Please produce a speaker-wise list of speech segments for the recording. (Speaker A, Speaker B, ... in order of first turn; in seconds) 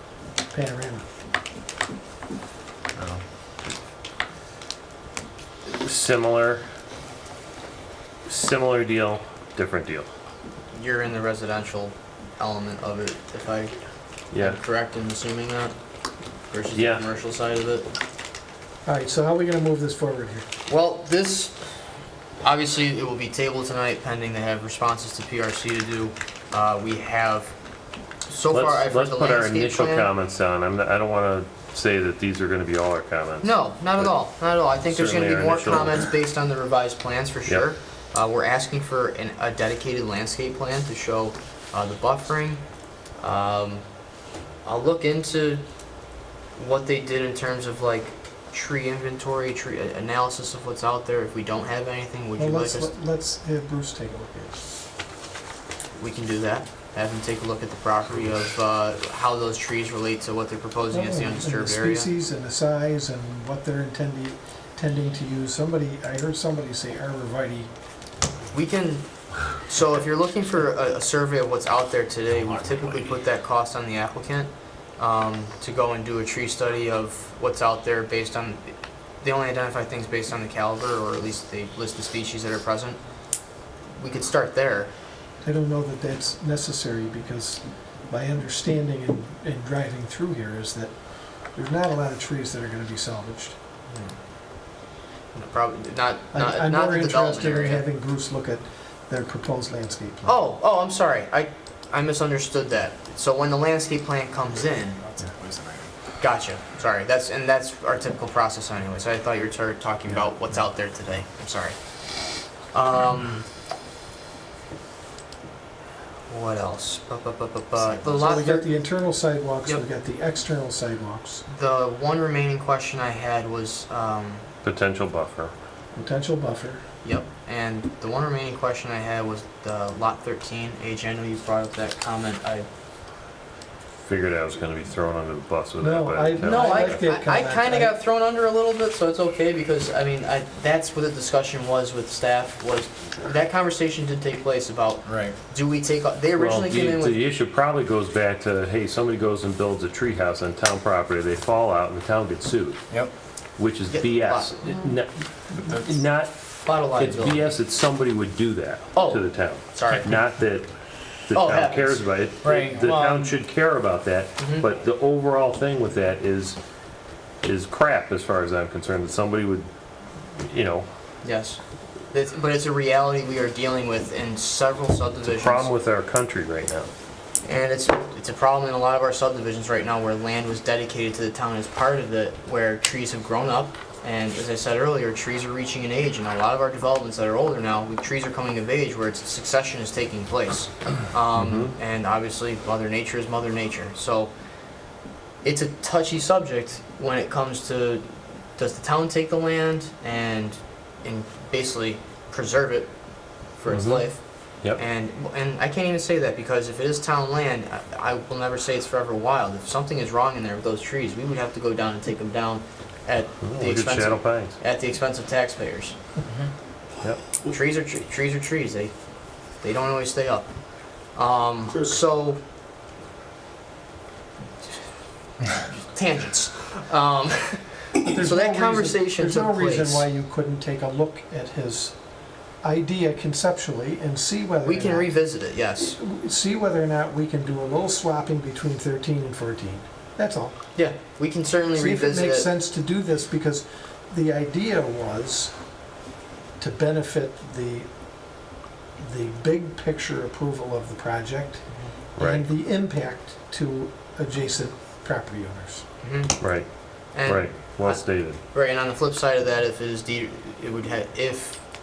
Speaker A: 0.5-1.1, 18.9-20.5, 52.4-54.6, 60.9-67.7, 85.4-91.0, 91.5-93.6, 96.3-100.4, 118.0-121.4, 126.0-126.8, 135.8-137.9, 228.0-232.0, 232.6-235.2, 235.8-240.6, 241.8-245.5, 246.6-247.9, 249.0-251.6, 252.2-255.8
Speaker B: 3.0-3.2, 104.9-105.9, 145.1-145.3, 155.6-155.9, 162.4-162.9
Speaker C: 5.7-6.6, 8.3-10.1, 14.3-14.6, 16.7-17.1, 28.5-34.1, 34.8-36.1, 124.6-125.5, 134.0-137.0, 146.4-152.9, 153.6-160.7, 161.2-166.6, 167.4-169.7, 170.4-170.9, 175.2-176.9, 191.4-191.7, 203.7-204.8, 213.4-214.6, 252.2-252.5, 256.4-258.4
Speaker D: 10.7-13.8, 14.3-15.8, 16.5-17.9, 20.7-21.6, 22.4-27.6, 28.3-30.1, 33.4-42.6, 43.2-43.9, 44.6-45.6, 46.6-52.9, 56.0-62.1, 68.5-83.0, 83.9-84.9, 93.9-94.2, 95.3-97.8, 100.2-105.0, 106.2-111.8, 112.7-113.5, 116.3-118.7, 121.5-124.5, 127.0-132.7, 136.4-147.2, 153.9-154.7, 156.7-157.5, 158.9-160.1, 161.3-163.4, 164.4-164.7, 171.2-171.6, 172.1-175.7, 177.4-194.3, 195.4-202.9, 203.6-216.0, 217.4-218.9, 219.6-220.5, 221.1-222.4, 225.7-230.1, 234.6-236.0, 240.8-242.5, 256.0-256.4, 257.1-261.6